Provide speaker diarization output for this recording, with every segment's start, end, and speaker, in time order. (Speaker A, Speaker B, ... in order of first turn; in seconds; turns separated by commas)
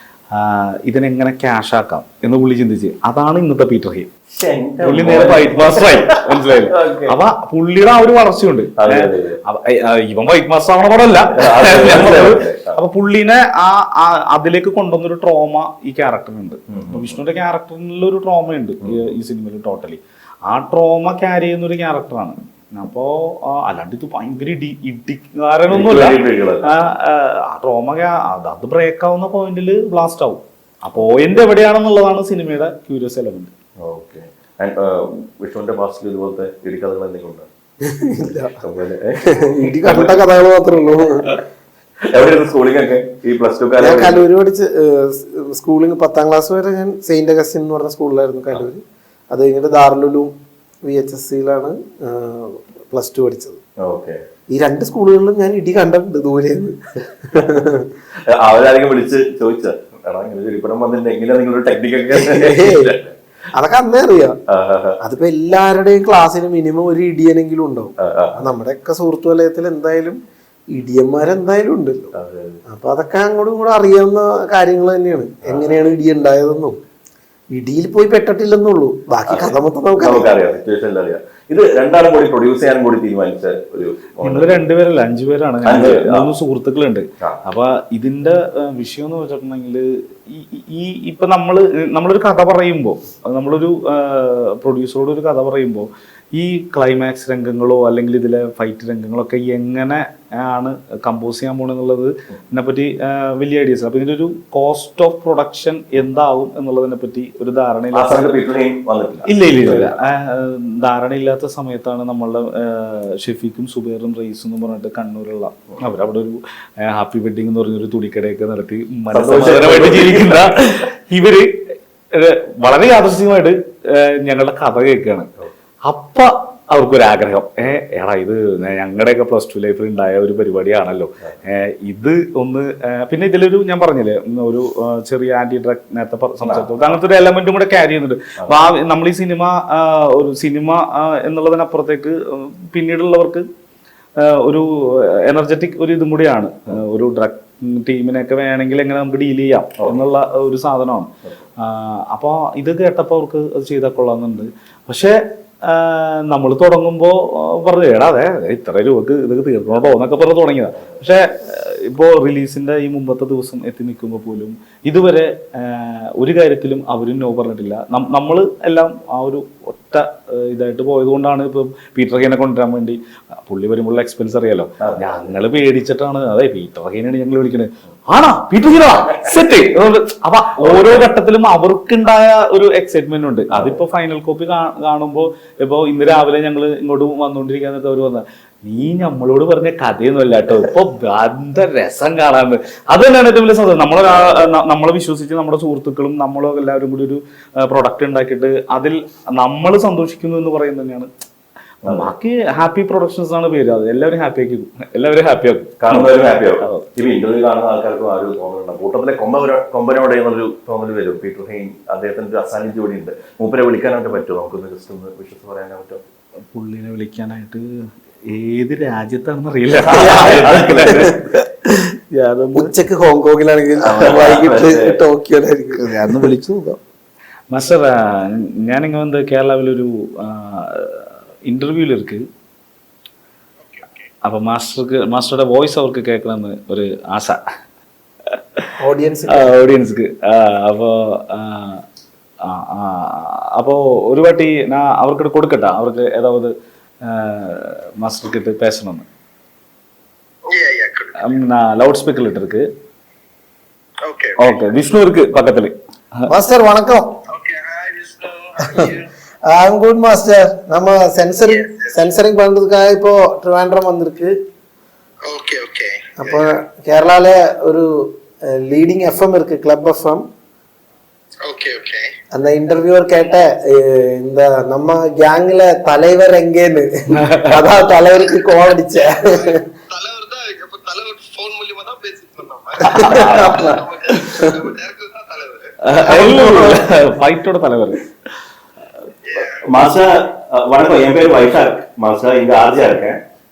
Speaker A: 0.3-4.1, Speaker B: 4.3-7.2, Speaker A: 4.8-33.5, Speaker B: 8.8-9.4, Speaker B: 11.3-12.8, Speaker B: 16.7-17.2, Speaker B: 25.7-26.7, Speaker B: 33.8-37.5, Speaker C: 37.8-38.6, Speaker B: 38.6-40.2, Speaker C: 39.2-41.4, Speaker B: 42.1-44.2, Speaker C: 43.8-50.3, Speaker C: 50.8-53.6, Speaker B: 53.8-54.2, Speaker C: 54.5-57.9, Speaker B: 58.1-63.1, Speaker C: 62.1-62.9, Speaker C: 63.5-64.4, Speaker B: 64.5-65.0, Speaker C: 65.0-70.2, Speaker B: 68.0-68.4, Speaker C: 70.7-72.1, Speaker B: 72.1-72.6, Speaker C: 72.7-76.8, Speaker B: 75.4-75.7, Speaker C: 77.5-80.3, Speaker B: 79.3-84.6, Speaker A: 84.2-108.3, Speaker B: 85.6-86.3, Speaker B: 107.9-110.0, Speaker A: 109.2-125.3, Speaker B: 119.1-120.6, Speaker A: 125.8-143.5, Speaker B: 136.4-137.0, Speaker B: 138.4-138.7, Speaker A: 144.2-201.1, Speaker B: 174.8-175.3, Speaker B: 180.6-181.1, Speaker B: 183.5-183.8, Speaker B: 194.0-194.5, Speaker A: 201.8-206.8, Speaker B: 201.8-202.1, Speaker B: 205.8-216.0, Speaker A: 216.5-221.4, Speaker B: 219.8-221.2, Speaker C: 219.9-220.2, Speaker C: 220.8-221.2, Speaker A: 222.1-222.7, Speaker C: 222.5-226.3, Speaker B: 223.8-225.0, Speaker A: 225.8-226.8, Speaker A: 227.5-232.3, Speaker D: 233.6-234.1, Speaker A: 234.2-237.4, Speaker C: 238.8-239.5, Speaker A: 239.3-241.8, Speaker A: 242.4-246.5, Speaker A: 247.0-249.1, Speaker D: 250.4-251.4, Speaker A: 251.2-252.7, Speaker D: 254.0-254.6, Speaker A: 254.4-256.2, Speaker C: 256.3-257.2, Speaker D: 257.3-259.1, Speaker C: 258.6-258.9, Speaker C: 259.5-264.3, Speaker D: 261.5-262.0, Speaker D: 265.2-266.5, Speaker C: 266.2-270.2, Speaker D: 271.4-272.1, Speaker C: 272.3-279.6, Speaker A: 277.2-277.6, Speaker D: 279.3-285.8, Speaker C: 282.8-284.5, Speaker A: 282.9-283.8, Speaker A: 285.8-288.1, Speaker C: 286.1-286.8, Speaker D: 289.2-289.6, Speaker B: 289.6-293.2